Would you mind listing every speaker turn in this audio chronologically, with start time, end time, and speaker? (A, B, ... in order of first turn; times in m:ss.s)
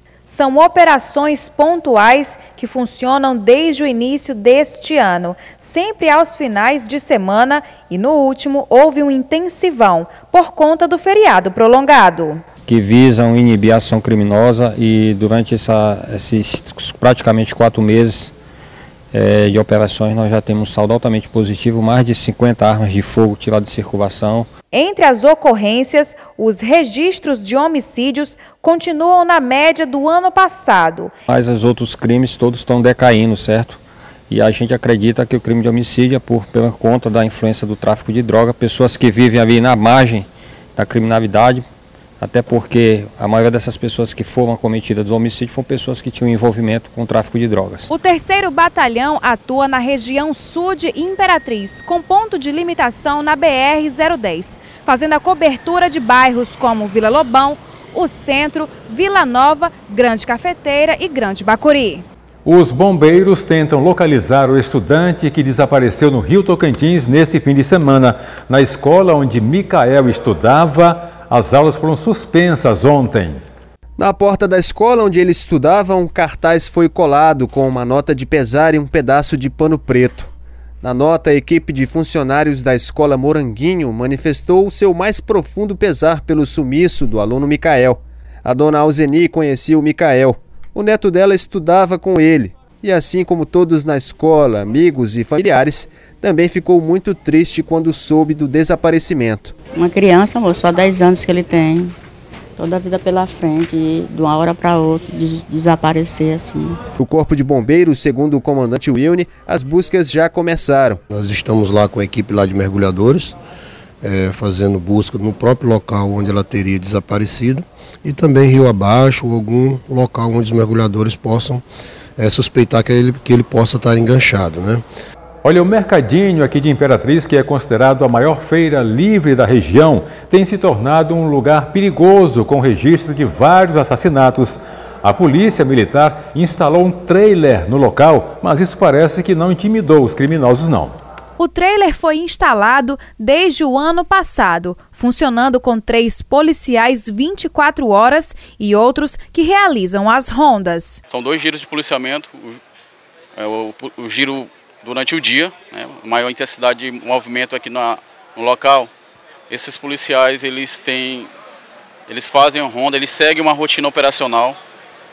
0:00.2-0:12.4 A
0:12.7-0:18.3 B
0:19.1-0:24.5 B
0:24.7-0:31.1 A
0:31.3-0:41.6 B
0:42.2-0:47.9 B
0:47.9-1:02.0 A
1:02.4-1:13.4 C
1:14.0-1:20.3 D
1:20.8-1:39.5 D
1:39.8-1:41.9 E
1:42.6-1:46.8 E
1:47.0-1:51.0 D
1:51.1-1:53.4 F
1:54.0-2:01.6 F
2:02.2-2:04.8 F
2:05.4-2:21.0 C
2:21.4-2:31.0 A
2:31.1-2:32.6 G
2:33.4-2:38.9 G
2:39.5-2:41.3 G
2:42.1-2:44.6 G